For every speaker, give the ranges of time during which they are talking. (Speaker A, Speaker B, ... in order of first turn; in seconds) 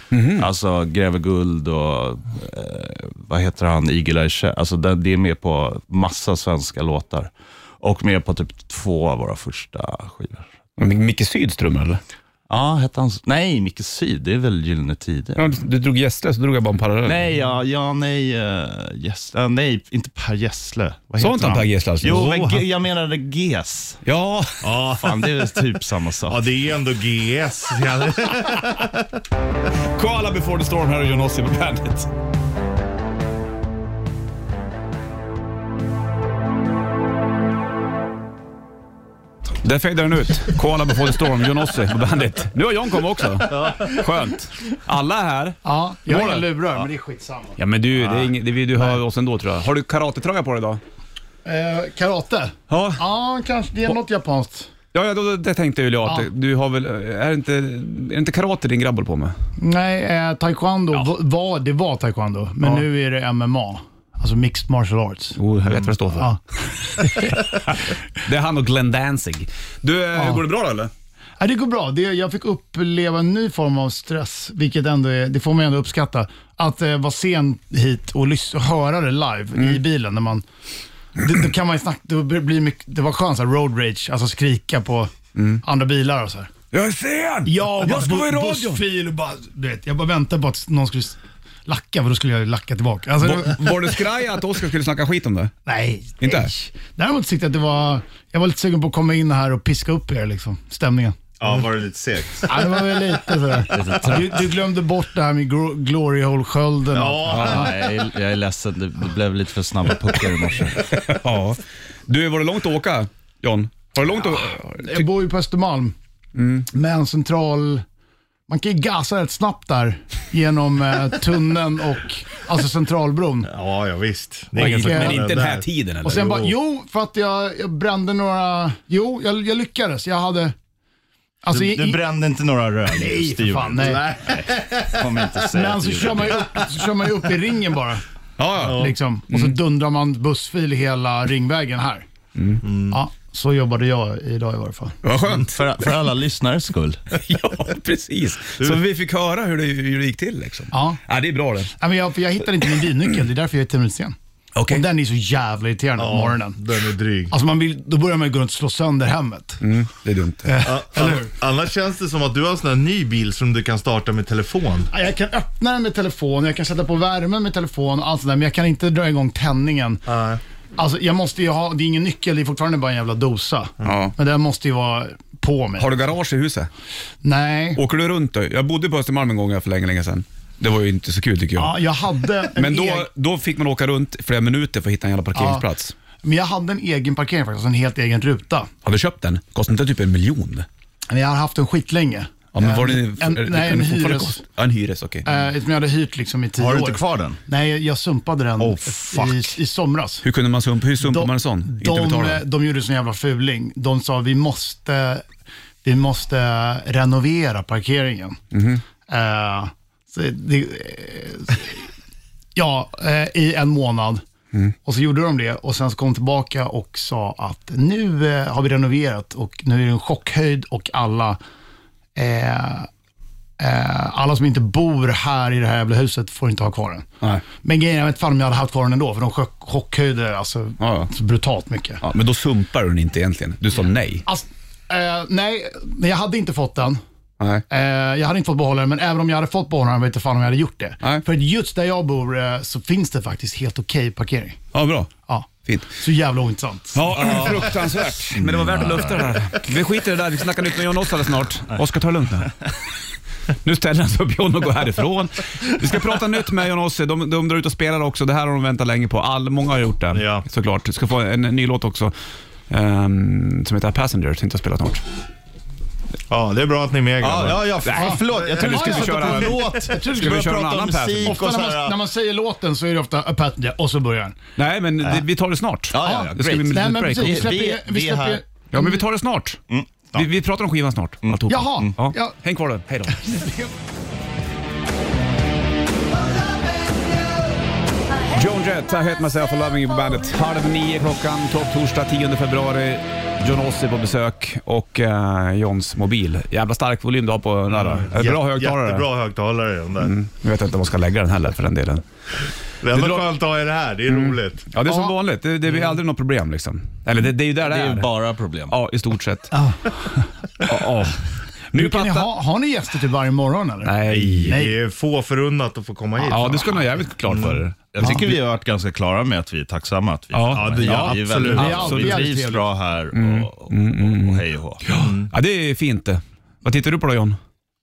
Speaker A: 0.1-0.5, 10.8-12.0, 15.4-17.3, 21.2-22.4, 24.0-24.6, 29.9-32.1, 39.6-46.5, 47.6-50.8, 52.7-53.0, 54.9-59.4, 65.4-66.3, 67.0-70.9, 85.4-85.6, 86.7-88.8, 93.2-95.5, 96.2-96.5, 107.3-107.6, 110.9-115.1, 116.4-116.7, 124.6-126.4, 138.4-139.6, 142.4-142.6, 145.0-145.6, 147.1-151.7, 154.6-154.8, 159.6-160.6, 173.8-174.1, 175.8-176.7, 177.8-181.8, 182.4-185.9, 188.8-190.7, 192.5-195.3, 200.2-202.4, 208.5-208.8, 230.8-231.1, 232.0-234.3, 244.7-245.1, 245.6-245.9, 246.9-252.6, 253.6-262.1, 262.7-265.0, 267.8-271.4, 274.6-277.6, 278.7-279.6, 280.1-283.5, 288.3-299.1, 300.0-302.0, 302.9-303.3, 304.1-308.1, 308.7-309.6, 310.6-312.3, 313.8-314.6, 316.2-318.2, 320.3-322.2, 323.1-327.4
Speaker B: 0.3-10.5, 12.5-15.5, 17.0-24.0, 24.9-26.4, 101.4-102.9, 103.7-104.5, 107.4-110.9, 131.5-136.6, 145.4-147.0, 196.6-197.4, 248.3-249.4, 267.2-272.0, 275.9-278.4, 279.7-280.3, 281.2-281.9, 307.6-308.8, 317.9-324.8
Speaker C: 22.1-22.6, 24.6-25.6, 26.3-29.1, 106.9-107.7, 123.5-126.5, 133.8-135.2, 138.6-138.9, 142.6-143.0, 156.0-157.3, 160.6-164.9, 170.1-170.4, 260.1-260.4, 266.3-268.5, 297.8-300.1, 302.8-304.7, 314.1-316.7, 317.3-317.6, 320.5-321.9, 325.0-325.3
Speaker D: 45.6-47.6, 51.5-54.7, 59.6-65.4, 66.1-67.5, 70.1-70.4, 71.4-80.4, 81.2-85.1, 85.6-86.5, 87.5-94.0, 95.7-101.3, 102.5-107.8, 114.8-116.0, 116.7-117.8, 118.5-123.5, 124.6-125.3, 126.0-130.6, 131.4-132.0, 132.9-134.1, 135.5-138.0, 138.7-142.1, 142.9-145.0, 150.7-151.0, 151.7-154.1, 154.7-156.6, 157.3-159.6, 160.4-161.3, 164.9-170.0, 170.8-176.0, 177.2-177.8, 181.6-183.1, 185.3-185.7, 186.2-188.7, 191.1-194.4, 195.2-200.3, 201.0-205.2, 205.8-208.4, 209.1-211.9, 212.6-214.2, 214.8-221.4, 222.2-222.9, 223.6-232.0, 234.3-237.0, 237.7-244.6, 245.2-247.6, 267.9-270.5, 271.2-274.4, 276.0-279.0, 281.5-282.4, 283.2-283.7, 304.9-305.1, 309.5-309.9, 311.7-314.8, 321.5-322.6